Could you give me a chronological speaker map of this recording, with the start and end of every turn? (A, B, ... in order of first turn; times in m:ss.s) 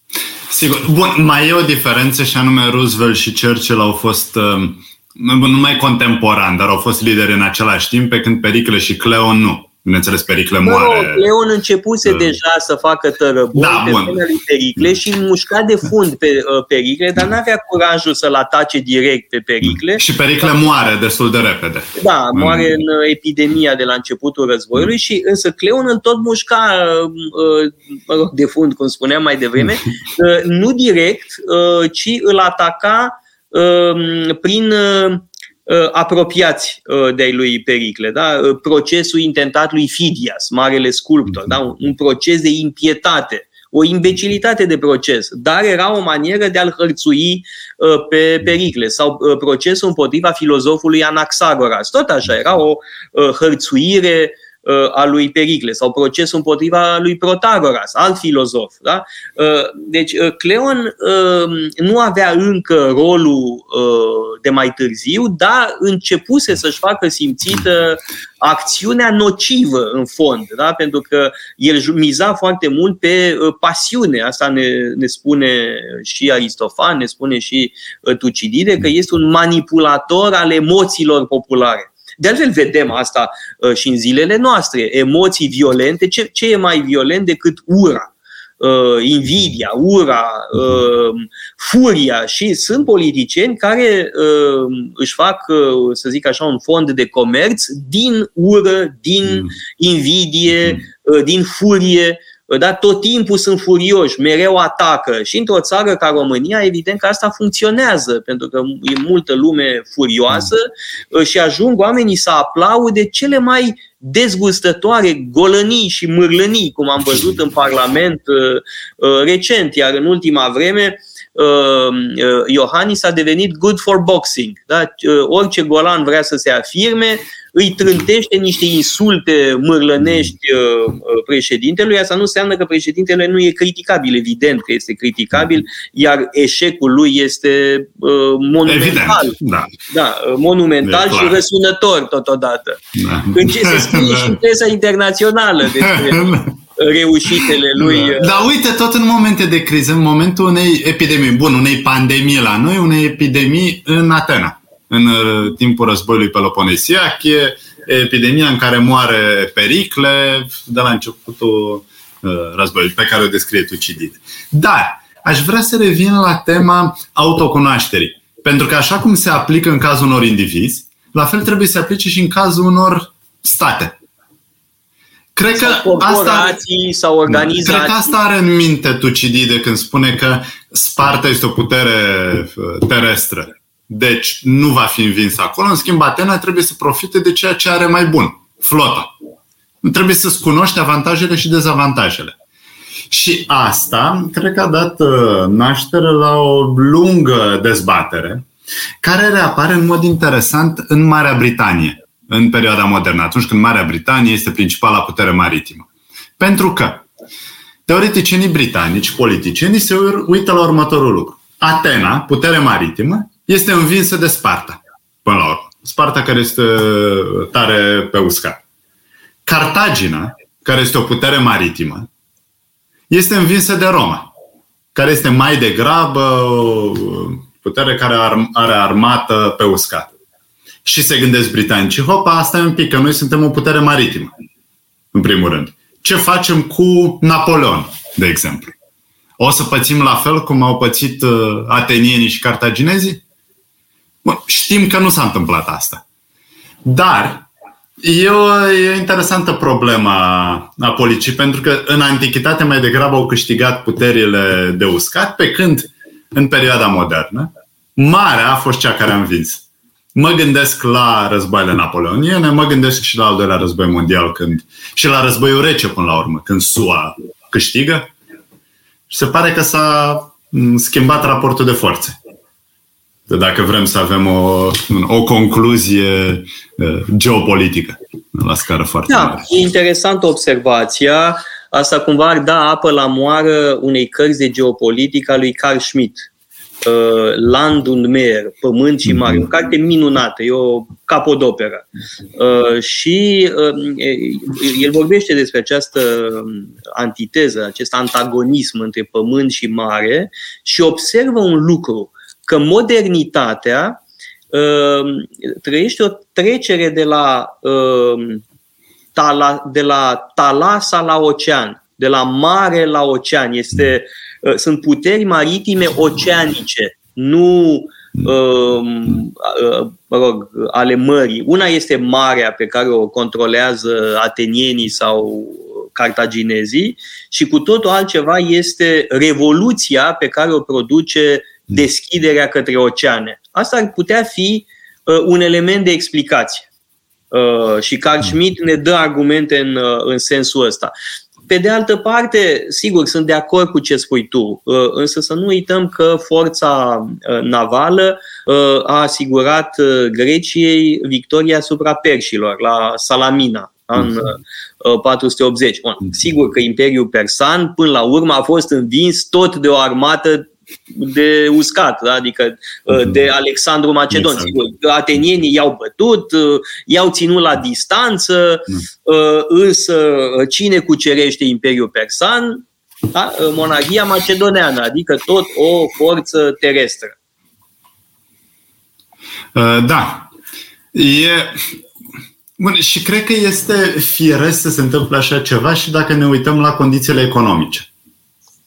0:00.5-0:11.2 A
0:10.6-0:20.0 B
0:13.5-0:14.2 A
0:19.6-0:22.7 A
0:22.0-2:19.4 B
2:18.6-2:19.7 A
2:19.9-2:22.8 B
2:20.8-2:21.4 A
2:22.9-2:24.4 A
2:23.3-2:28.4 B
2:25.8-2:26.5 A
2:27.8-2:54.0 A
2:55.4-2:56.6 A
2:55.6-2:58.1 B
2:57.3-3:09.1 A
3:09.8-3:12.3 A
3:13.1-3:18.4 A
3:19.0-3:25.8 A
3:26.4-3:27.0 A
3:27.9-3:38.6 A
3:39.4-3:42.1 A
3:43.1-3:44.3 A
3:44.9-3:50.1 A
3:50.8-3:54.3 A
3:55.1-3:58.7 A
3:59.4-4:03.2 A
4:04.2-4:06.0 A
4:06.8-4:07.5 A
4:08.0-4:19.6 A
4:20.1-4:28.1 A
4:29.1-4:32.2 A
4:33.3-4:39.5 A
4:39.1-4:46.3 B
4:46.8-4:51.8 B
4:49.1-4:49.4 A
4:52.4-5:04.0 B
5:04.5-5:08.4 B
5:09.1-5:36.7 B
5:37.3-5:40.9 B
5:41.5-6:17.1 B
6:04.1-6:04.6 A
6:19.5-6:20.3 A
6:20.9-6:21.6 A
6:22.6-6:27.9 A